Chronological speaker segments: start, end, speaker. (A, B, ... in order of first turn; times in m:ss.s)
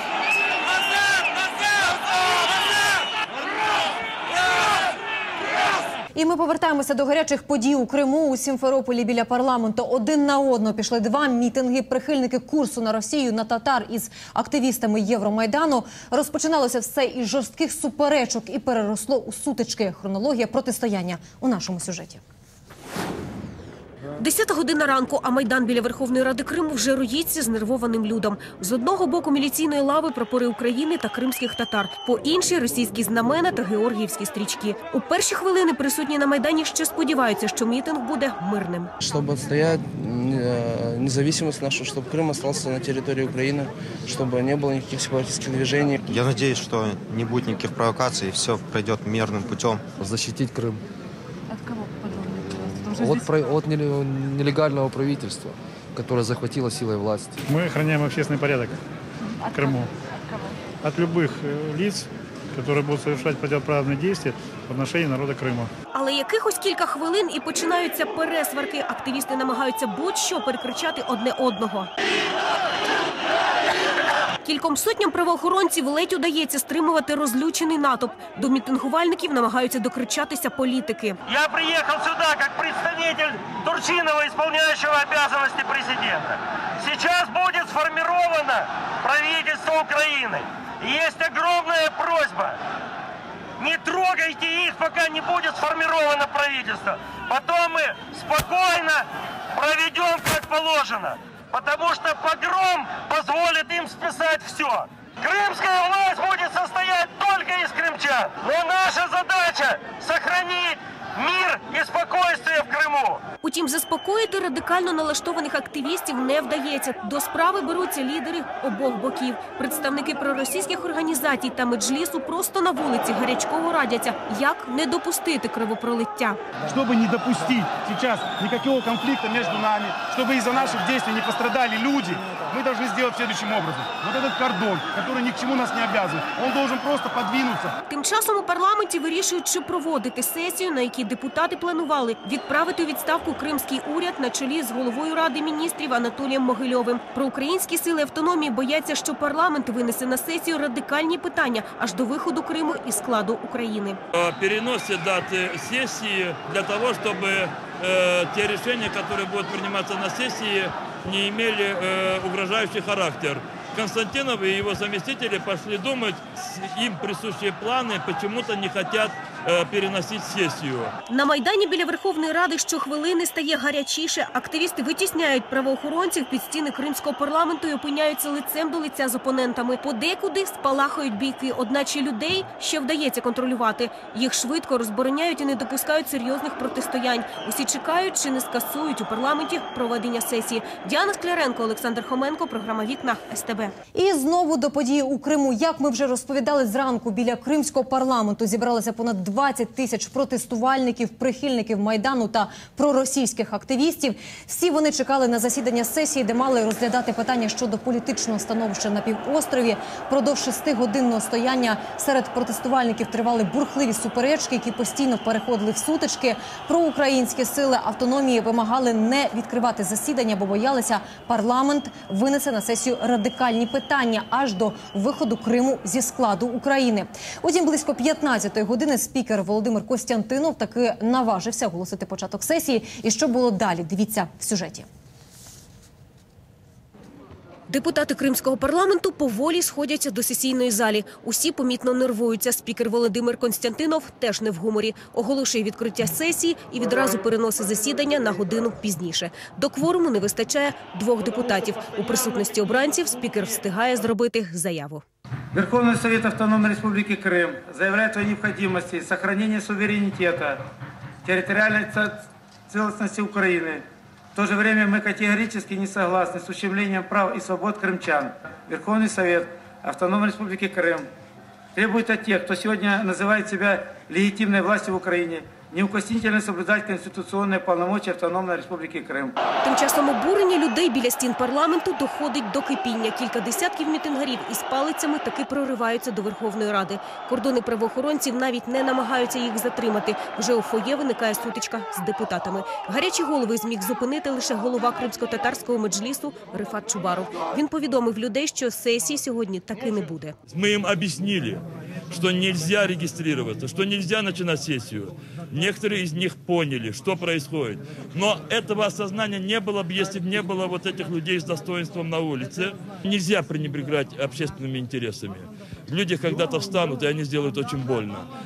0:06.2-0:22.2 A
0:24.2-0:38.9 B
0:39.0-0:46.1 C
0:46.0-0:49.8 D
0:50.0-0:50.8 E
0:53.0-0:57.3 E
0:57.5-0:58.8 F
0:59.5-0:59.9 F
1:00.8-1:05.7 F
1:06.0-1:11.9 B
1:14.4-1:21.2 B
1:21.3-1:32.6 G
1:33.6-1:53.2 G
1:53.4-2:06.4 B
2:06.7-2:17.7 H
2:17.9-2:34.0 B
2:34.2-2:50.9 I
2:51.1-3:13.8 B
3:13.9-3:54.9 A
3:57.7-4:15.0 B
4:15.5-4:20.6 J
4:21.2-4:31.1 J
4:31.8-4:39.4 J
4:39.6-5:00.3 B
5:00.5-5:18.3 I